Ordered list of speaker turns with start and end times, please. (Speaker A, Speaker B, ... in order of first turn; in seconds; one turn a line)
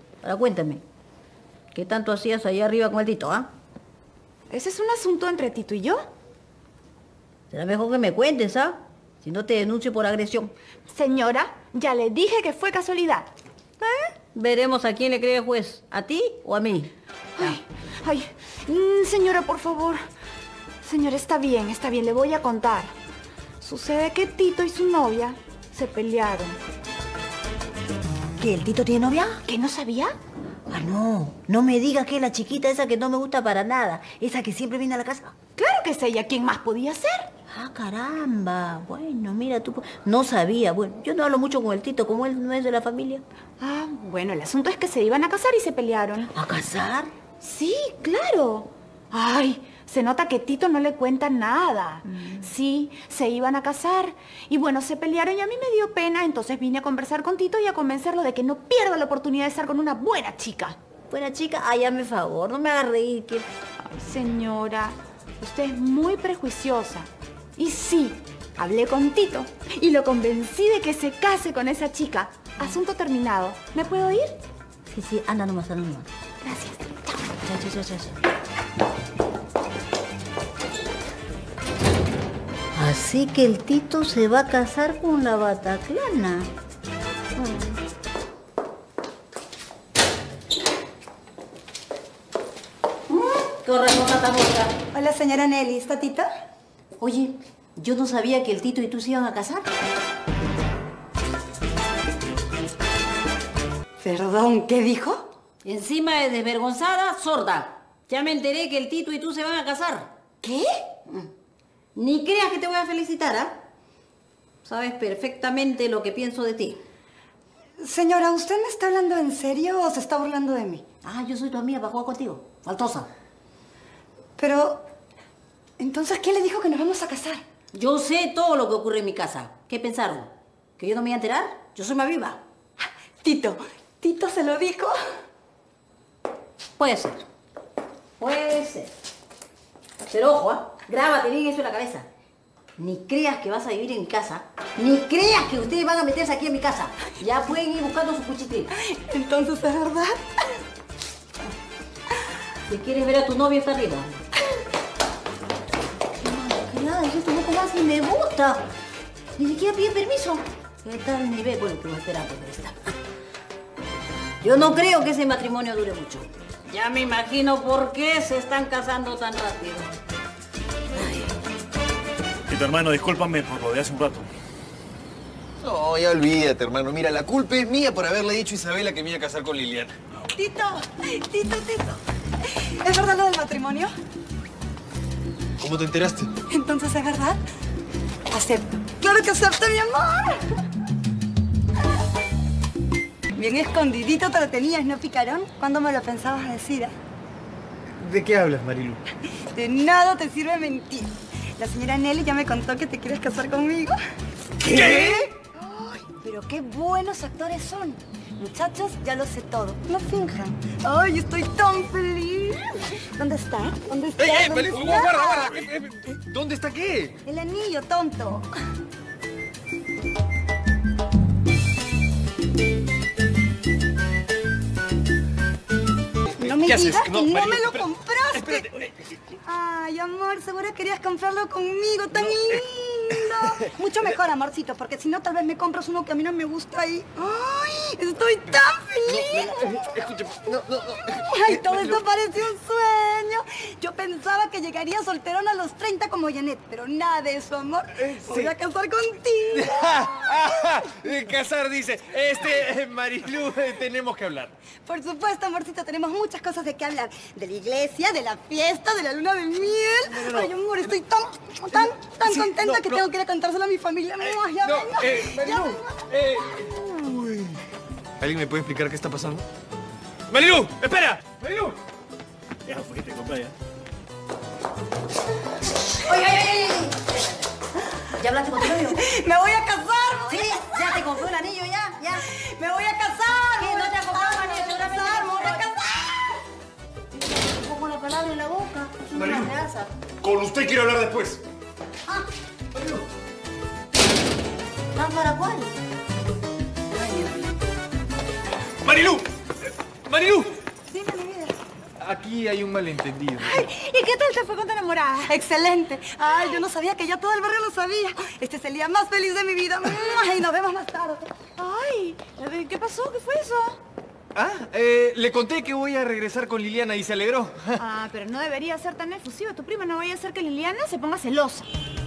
Speaker A: 0.2-0.8
Speaker A: 1.7-3.5
Speaker B: 4.5-6.0
Speaker A: 7.5-10.5
Speaker B: 10.9-13.3
Speaker B: 13.8-14.1
Speaker A: 14.3-17.6
Speaker B: 17.4-20.0
Speaker B: 20.8-22.9
Speaker B: 23.6-26.6
Speaker A: 28.4-29.4
Speaker B: 29.4-30.1
Speaker A: 30.7-35.3
Speaker B: 35.5-37.3
Speaker A: 37.5-43.2
Speaker B: 43.6-46.3
Speaker A: 46.3-47.1
Speaker B: 47.4-60.8
Speaker A: 52.1-52.5
Speaker A: 61.1-63.5
Speaker B: 63.8-74.4
Speaker A: 74.9-76.1
Speaker B: 76.4-77.1
Speaker A: 77.3-78.1
Speaker A: 82.7-86.5
Speaker A: 93.1-94.7
Speaker C: 94.9-96.3
Speaker A: 97.0-99.7
Speaker C: 104.0-105.3
Speaker A: 105.6-110.1
Speaker C: 110.4-110.7
Speaker A: 111.9-113.6
Speaker A: 114.6-116.8
Speaker C: 117.8-120.8
Speaker A: 121.0-123.1
Speaker C: 124.4-124.8
Speaker C: 125.8-127.4
Speaker A: 127.7-132.4
Speaker C: 133.2-134.9
Speaker A: 136.8-137.2
Speaker A: 138.2-138.9
Speaker A: 140.1-142.1
Speaker A: 142.8-148.7
Speaker C: 148.8-150.4
Speaker A: 152.7-154.2
Speaker A: 156.2-158.7
Speaker A: 159.4-162.9
Speaker A: 164.4-169.9
Speaker A: 170.9-171.3
Speaker D: 172.5-174.3
Speaker E: 175.6-179.9
Speaker C: 180.3-183.9
Speaker E: 185.6-186.3
Speaker C: 186.5-187.4
Speaker C: 188.3-190.4
Speaker C: 193.3-196.9
Speaker E: 198.0-199.0
Speaker C: 199.5-203.9
Speaker E: 204.6-205.3
Speaker C: 204.6-215.6
Speaker E: 214.2-217.2
Speaker C: 217.2-218.5
Speaker C: 226.4-228.7
Speaker E: 226.4-227.8
Speaker C: 229.4-239.9
Speaker E: 239.1-242.0
Speaker C: 241.2-249.8
Speaker E: 248.1-248.5
Speaker E: 249.6-254.5
Speaker C: 254.8-266.1
Speaker E: 260.1-260.5
Speaker E: 262.2-263.0
Speaker E: 264.2-267.6
Speaker E: 268.2-269.4
Speaker E: 270.3-271.8
Speaker D: 272.7-273.5
Speaker A: 276.0-277.2
Speaker A: 278.1-279.0
Speaker C: 278.9-281.2
Speaker A: 280.3-282.3
Speaker C: 282.3-286.3
Speaker A: 283.5-285.7
Speaker A: 287.2-289.9
Speaker D: 289.2-289.5
Speaker D: 290.2-291.3
Speaker E: 290.2-291.4
Speaker A: 294.9-295.7
Speaker A: 296.9-297.4
Speaker E: 298.8-299.3
Speaker E: 300.1-300.5
Speaker C: 300.9-301.6
Speaker E: 302.0-303.6
Speaker B: 303.4-305.4
Speaker C: 305.3-311.3
Speaker B: 311.6-313.8
Speaker E: 314.3-317.8
Speaker B: 317.8-321.7